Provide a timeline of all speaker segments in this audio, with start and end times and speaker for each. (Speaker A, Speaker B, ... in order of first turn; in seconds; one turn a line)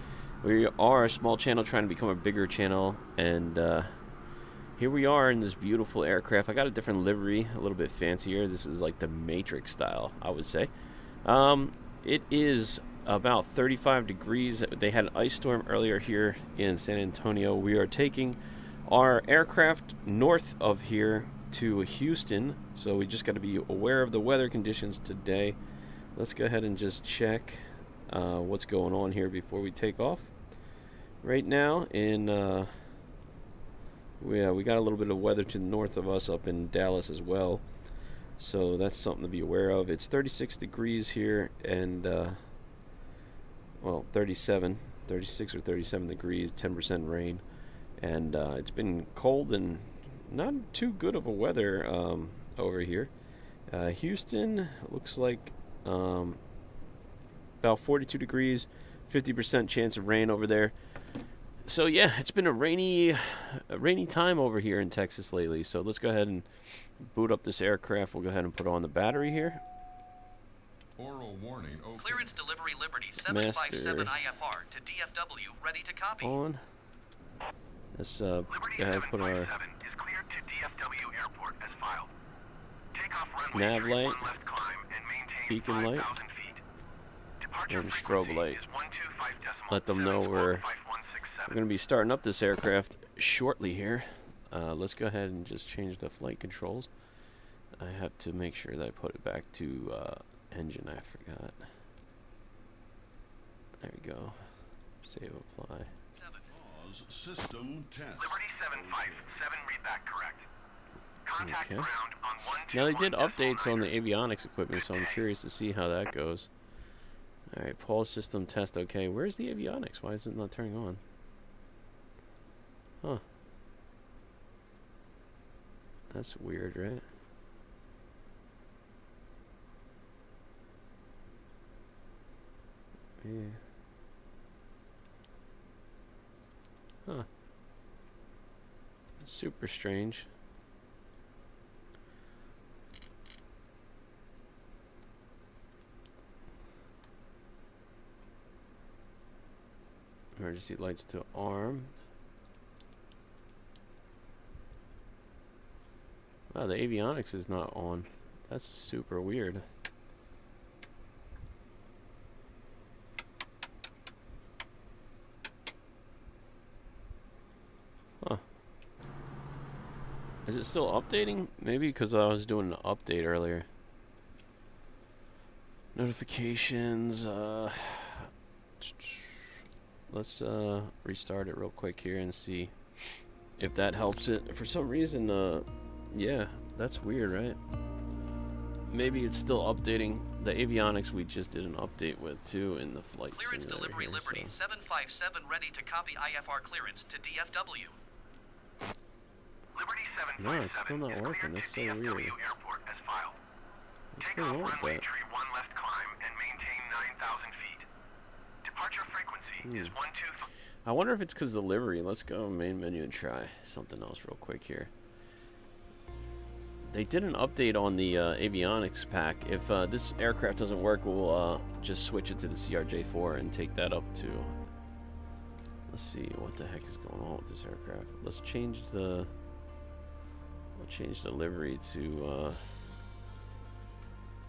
Speaker A: 0.4-4.0
Speaker A: 4.8-10.7
Speaker A: 11.2-25.6
Speaker A: 26.1-30.3
Speaker A: 31.2-33.0
Speaker A: 34.2-37.8
Speaker A: 38.4-42.5
Speaker A: 43.8-47.4
Speaker A: 48.0-53.1
Speaker A: 53.7-56.4
Speaker A: 57.6-60.8
Speaker A: 61.6-69.6
Speaker B: 71.0-72.4
Speaker C: 72.0-76.4
Speaker A: 73.2-74.2
Speaker A: 76.2-76.6
Speaker A: 77.9-79.5
Speaker D: 78.5-82.1
Speaker D: 82.9-86.6
Speaker A: 83.5-84.3
Speaker A: 85.5-86.1
Speaker D: 87.4-91.6
Speaker A: 87.7-88.6
Speaker A: 89.7-90.7
Speaker A: 91.5-96.9
Speaker A: 97.8-101.8
Speaker A: 103.8-105.9
Speaker C: 106.2-106.5
Speaker B: 106.5-109.4
Speaker D: 108.2-110.5
Speaker D: 111.2-113.9
Speaker A: 111.4-111.9
Speaker A: 112.7-116.5
Speaker D: 114.7-115.2
Speaker A: 117.5-121.0
Speaker A: 126.1-127.0
Speaker A: 133.2-133.6
Speaker A: 139.2-140.3
Speaker A: 150.3-151.9
Speaker A: 156.5-159.7
Speaker A: 170.4-173.7
Speaker A: 175.9-187.6
Speaker A: 188.9-194.5
Speaker C: 193.3-198.0
Speaker D: 199.7-203.4
Speaker A: 200.4-202.3
Speaker A: 204.1-205.0
Speaker D: 204.2-207.9
Speaker D: 208.6-210.5
Speaker A: 209.6-209.9
Speaker A: 210.8-214.9
Speaker A: 216.8-224.5
Speaker A: 225.9-229.3
Speaker A: 230.8-232.8